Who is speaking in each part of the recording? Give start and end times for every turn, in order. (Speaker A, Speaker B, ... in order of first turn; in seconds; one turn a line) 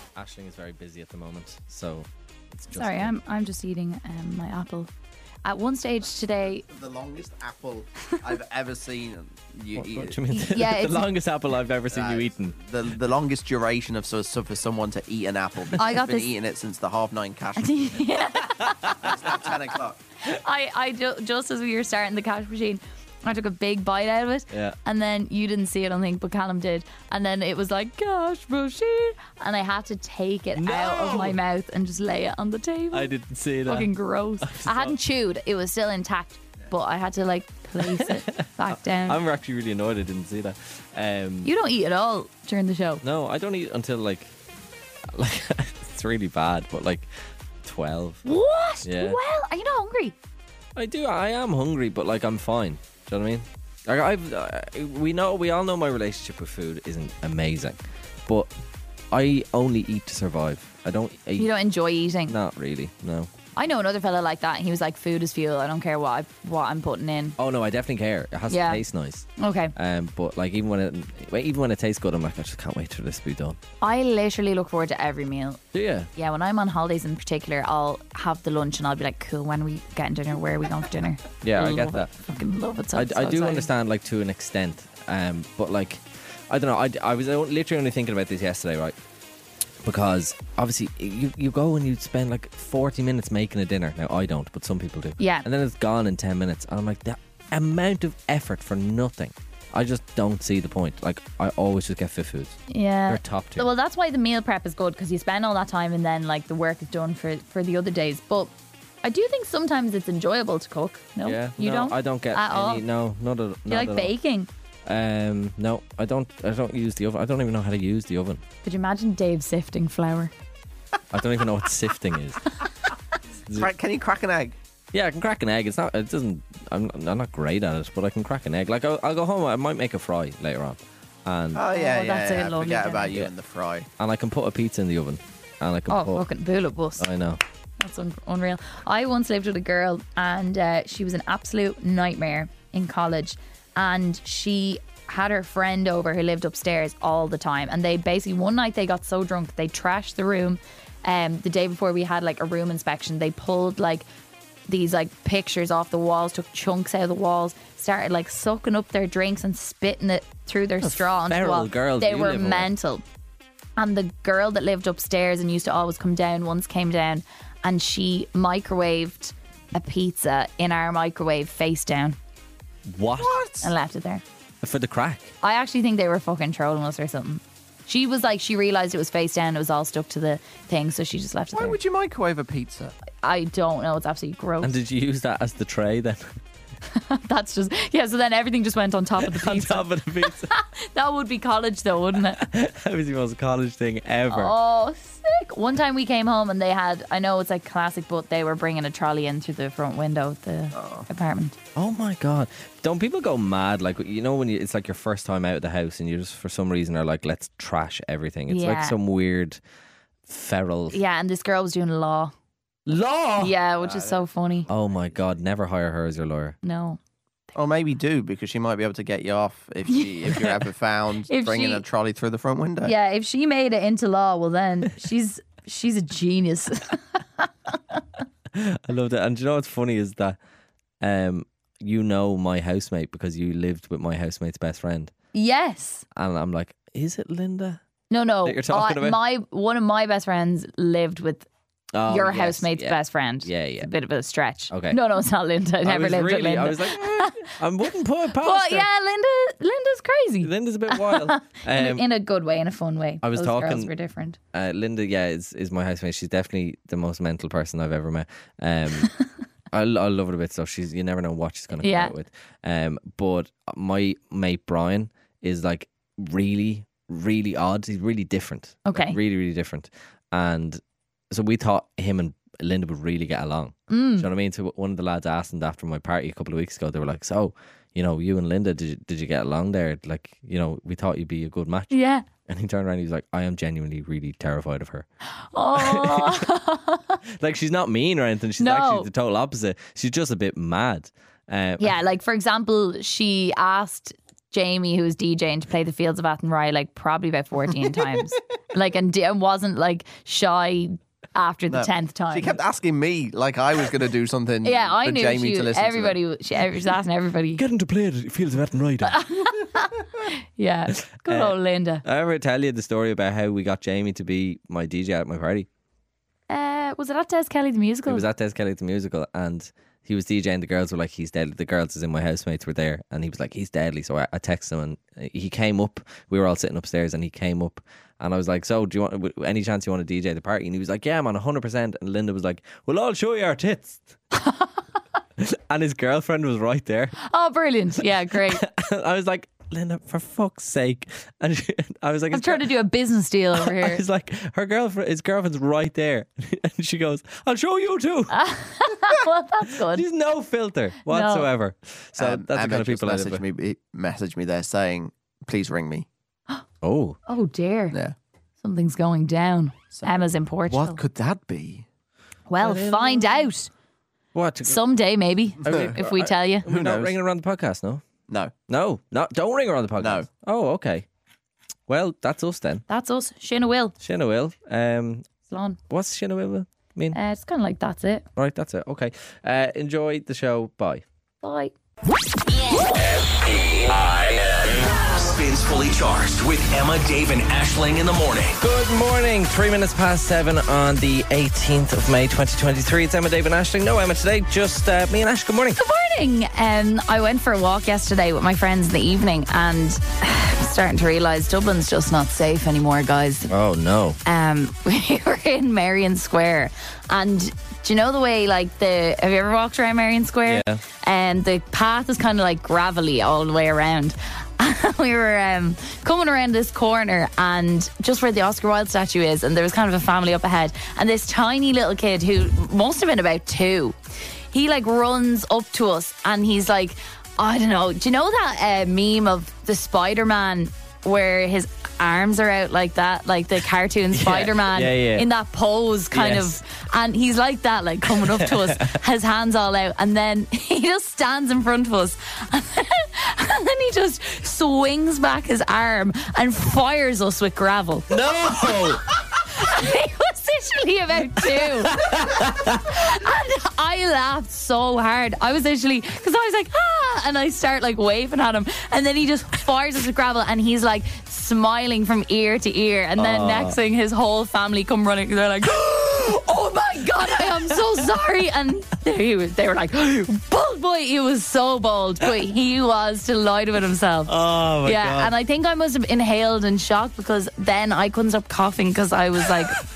Speaker A: 0.1-3.2
Speaker B: 2.7-4.9
Speaker B: 5.5-6.6
Speaker C: 6.7-10.2
Speaker A: 9.7-12.6
Speaker B: 10.3-11.1
Speaker C: 11.9-17.8
Speaker B: 15.8-16.3
Speaker B: 17.6-19.1
Speaker C: 18.9-20.0
Speaker B: 20.3-33.1
Speaker A: 24.5-24.8
Speaker A: 30.6-31.4
Speaker A: 32.9-33.9
Speaker B: 33.7-39.2
Speaker A: 34.4-35.0
Speaker A: 37.8-41.5
Speaker B: 41.4-43.0
Speaker A: 43.0-44.3
Speaker A: 45.1-47.1
Speaker A: 47.6-48.2
Speaker B: 48.2-50.1
Speaker A: 48.8-49.2
Speaker A: 50.8-58.5
Speaker A: 59.1-61.5
Speaker B: 61.4-62.4
Speaker A: 62.3-63.3
Speaker B: 63.5-67.4
Speaker A: 67.4-73.6
Speaker B: 68.5-68.8
Speaker B: 69.4-69.7
Speaker B: 73.8-75.6
Speaker A: 75.7-76.1
Speaker B: 76.2-83.7
Speaker A: 81.4-82.1
Speaker A: 83.0-89.0
Speaker A: 89.8-103.7
Speaker B: 95.2-95.5
Speaker B: 102.7-108.5
Speaker B: 109.0-112.8
Speaker A: 111.2-114.1
Speaker B: 113.7-114.5
Speaker A: 114.9-118.4
Speaker B: 118.6-120.3
Speaker A: 121.1-122.4
Speaker C: 123.6-124.5
Speaker A: 124.9-131.7
Speaker C: 131.5-133.9
Speaker B: 131.7-133.2
Speaker A: 134.0-136.2
Speaker B: 135.9-137.1
Speaker A: 137.0-137.4
Speaker B: 137.8-154.1
Speaker B: 154.7-163.0
Speaker A: 160.8-162.7
Speaker B: 163.8-172.2
Speaker A: 172.9-173.4
Speaker C: 173.2-173.7
Speaker B: 173.6-174.2
Speaker A: 174.6-175.3
Speaker B: 175.4-181.8
Speaker C: 181.5-182.9
Speaker B: 183.2-184.7
Speaker A: 184.6-186.4
Speaker B: 186.9-192.4
Speaker A: 189.2-190.5
Speaker A: 192.3-194.6
Speaker B: 194.3-201.6
Speaker C: 200.8-201.0
Speaker A: 201.8-209.6
Speaker B: 208.5-208.9
Speaker A: 210.3-211.0
Speaker B: 210.9-212.3
Speaker A: 212.9-213.5
Speaker C: 213.2-215.3
Speaker B: 213.4-214.7
Speaker A: 214.7-216.6
Speaker B: 216.6-217.0
Speaker C: 217.6-222.9
Speaker A: 220.3-220.6
Speaker B: 221.3-221.8
Speaker B: 222.8-227.5
Speaker A: 228.5-230.4
Speaker A: 231.0-235.1
Speaker B: 235.3-236.1
Speaker A: 236.1-237.8
Speaker B: 238.1-241.5
Speaker A: 238.4-239.2
Speaker A: 241.9-243.9
Speaker B: 242.1-247.5
Speaker A: 244.7-245.0
Speaker A: 245.8-248.9
Speaker B: 248.4-254.4
Speaker A: 250.4-252.1
Speaker A: 253.2-253.9
Speaker A: 254.5-259.1
Speaker A: 259.7-281.9
Speaker B: 261.8-262.1
Speaker B: 268.8-269.2
Speaker B: 273.9-274.3
Speaker B: 281.9-282.2
Speaker A: 282.4-285.1
Speaker B: 285.5-287.2
Speaker A: 285.8-286.4
Speaker A: 287.3-291.9
Speaker B: 288.6-289.1
Speaker B: 291.8-302.6
Speaker C: 301.7-306.2
Speaker B: 304.6-307.6
Speaker A: 307.6-309.2
Speaker B: 309.0-312.0
Speaker A: 311.2-315.7
Speaker B: 316.5-318.3
Speaker A: 318.1-334.1
Speaker B: 334.3-334.7
Speaker A: 335.4-337.1
Speaker B: 337.2-338.6
Speaker A: 338.3-342.7
Speaker B: 342.3-344.0
Speaker A: 343.5-348.4
Speaker B: 348.3-350.0
Speaker A: 349.7-353.4
Speaker B: 351.0-351.5
Speaker C: 352.2-356.1
Speaker A: 356.8-357.2
Speaker B: 357.3-357.9
Speaker B: 358.6-361.0
Speaker C: 359.9-361.9
Speaker B: 362.5-363.7
Speaker A: 362.6-363.5
Speaker A: 364.3-364.8
Speaker B: 364.6-366.7
Speaker A: 365.6-368.0
Speaker C: 366.6-367.1
Speaker C: 368.3-368.5
Speaker A: 368.7-371.1
Speaker C: 370.0-370.2
Speaker A: 371.9-372.8
Speaker B: 372.9-373.9
Speaker A: 374.0-375.2
Speaker B: 375.5-375.8
Speaker A: 375.9-377.2
Speaker B: 377.1-378.2
Speaker A: 378.4-381.0
Speaker B: 381.4-381.7
Speaker D: 383.6-388.6
Speaker A: 388.6-395.8
Speaker B: 395.8-403.5
Speaker A: 403.5-404.2
Speaker B: 404.2-423.9
Speaker A: 410.4-410.8
Speaker B: 424.5-448.9
Speaker A: 434.1-435.3
Speaker A: 436.1-436.6
Speaker A: 438.1-438.9
Speaker A: 448.1-449.0
Speaker B: 449.5-479.8
Speaker A: 451.4-452.9
Speaker A: 463.1-463.8
Speaker A: 474.3-475.3